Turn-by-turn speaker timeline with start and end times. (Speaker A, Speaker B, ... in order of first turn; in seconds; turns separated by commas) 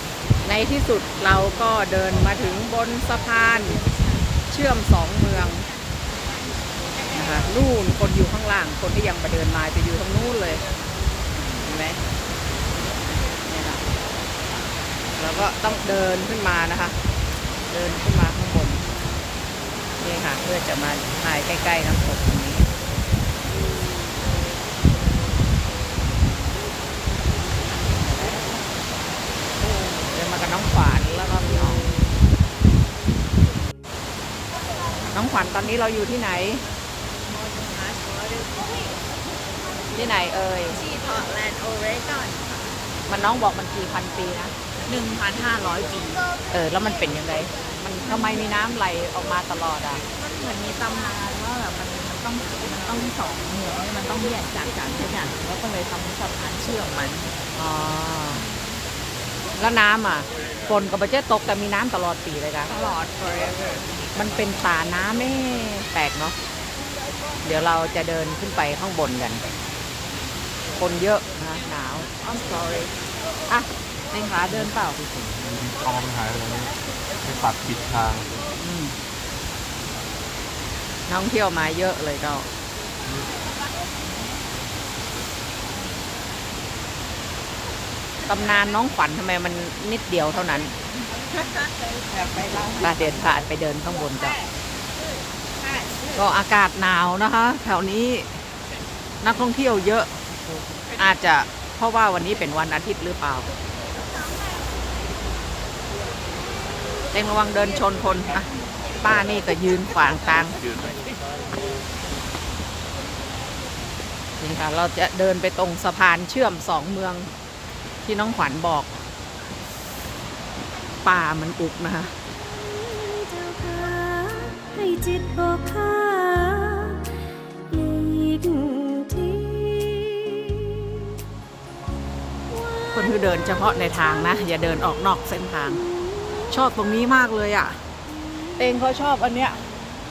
Speaker A: 0.4-3.8, Speaker A: 4.5-5.7, Speaker A: 7.1-10.6, Speaker A: 11.6-12.0, Speaker A: 13.4-13.8, Speaker A: 15.2-17.0, Speaker A: 17.7-18.8, Speaker A: 20.0-22.7, Speaker A: 27.9-28.6, Speaker A: 29.9-31.9, Speaker A: 35.1-36.6, Speaker B: 37.3-38.9, Speaker A: 40.0-40.9, Speaker B: 40.8-42.6, Speaker A: 43.1-44.5, Speaker B: 44.9-46.3, Speaker A: 46.5-50.0, Speaker B: 48.1-48.4, Speaker B: 50.1-57.3, Speaker A: 57.5-58.5, Speaker A: 59.6-62.9, Speaker B: 62.7-64.0, Speaker A: 64.1-66.4, Speaker A: 67.4-69.5, Speaker A: 70.8-72.9, Speaker A: 73.5-75.3, Speaker C: 75.3-76.7, Speaker C: 77.2-78.4, Speaker A: 78.6-79.0, Speaker A: 81.1-82.5, Speaker A: 88.3-90.7, Speaker B: 91.4-92.9, Speaker A: 92.7-94.4, Speaker B: 95.7-96.1, Speaker A: 96.2-98.4, Speaker A: 99.2-100.1, Speaker A: 101.0-103.5, Speaker A: 107.1-110.6, Speaker C: 110.5-111.1, Speaker A: 114.4-117.3, Speaker A: 118.0-119.0, Speaker A: 121.0-122.2, Speaker D: 122.4-131.1, Speaker D: 132.5-133.2, Speaker A: 132.9-135.8, Speaker A: 136.5-137.8, Speaker A: 138.6-139.6